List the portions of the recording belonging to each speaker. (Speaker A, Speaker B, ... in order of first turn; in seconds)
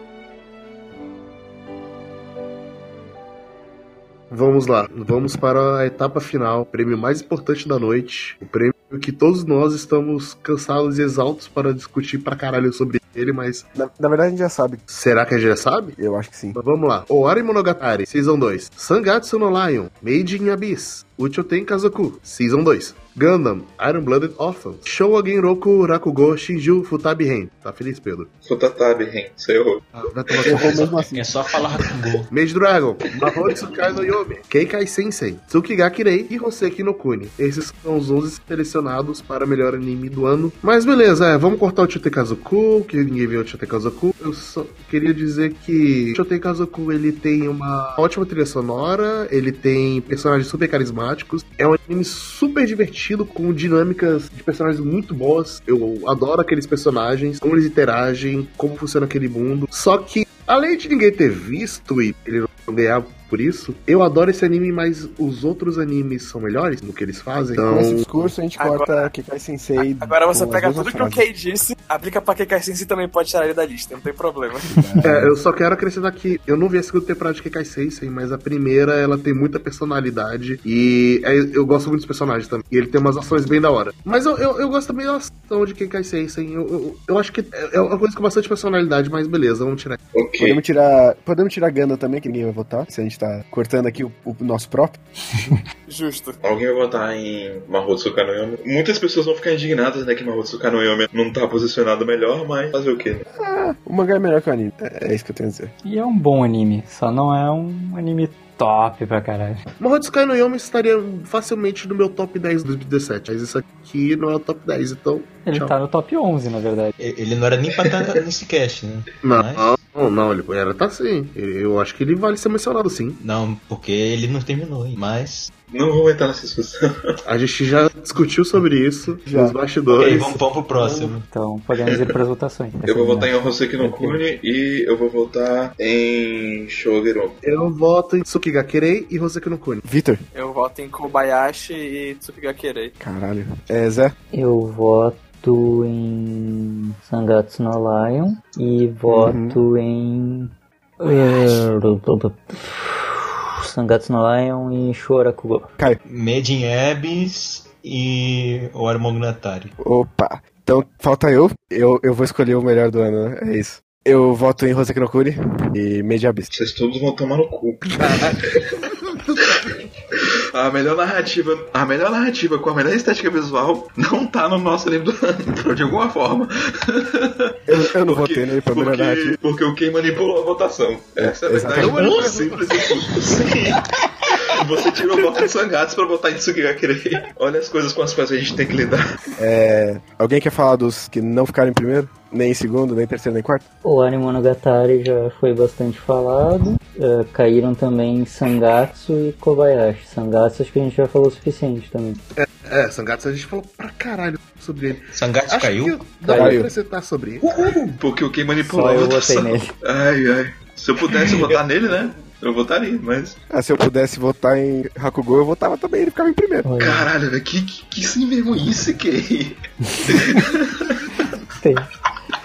Speaker A: 4.3-13.7, 14.9-16.0, 16.6-28.3, 30.1-31.0, 32.3-68.0, 75.0-90.0, 109.8-115.8, 119.2-123.2, 127.3-130.4, 137.4-139.8, 181.8-182.8, 202.4-207.4
Speaker B: 13.8-14.8, 16.0-16.6, 30.5-31.2, 67.5-71.3, 90.4-95.0, 103.4-105.7, 129.3-129.6, 139.8-140.2, 143.0-144.2, 149.1-149.6, 159.8-166.5, 177.7-179.4, 181.2-182.2, 189.4-193.7, 206.3-206.7, 213.5-216.7
Speaker C: 28.4-29.9, 90.2-90.6, 96.4-103.3, 125.7-126.8, 132.9-137.4, 166.5-168.8, 170.5-189.2, 207.4-213.4, 216.8-221.1
Speaker D: 30.4-32.3, 75.0-75.3, 117.0-119.7, 123.2-125.5, 129.9-131.3, 156.1-159.7, 205.1-206.1
Speaker E: 68.6-69.1, 69.8-74.8, 95.9-96.3, 140.3-142.9
Speaker F: 105.8-109.6, 115.5-117.0, 130.9-134.2, 144.3-155.7, 193.8-202.2, 206.3-206.6, 208.7-209.7, 216.6-217.1, 221.6-221.9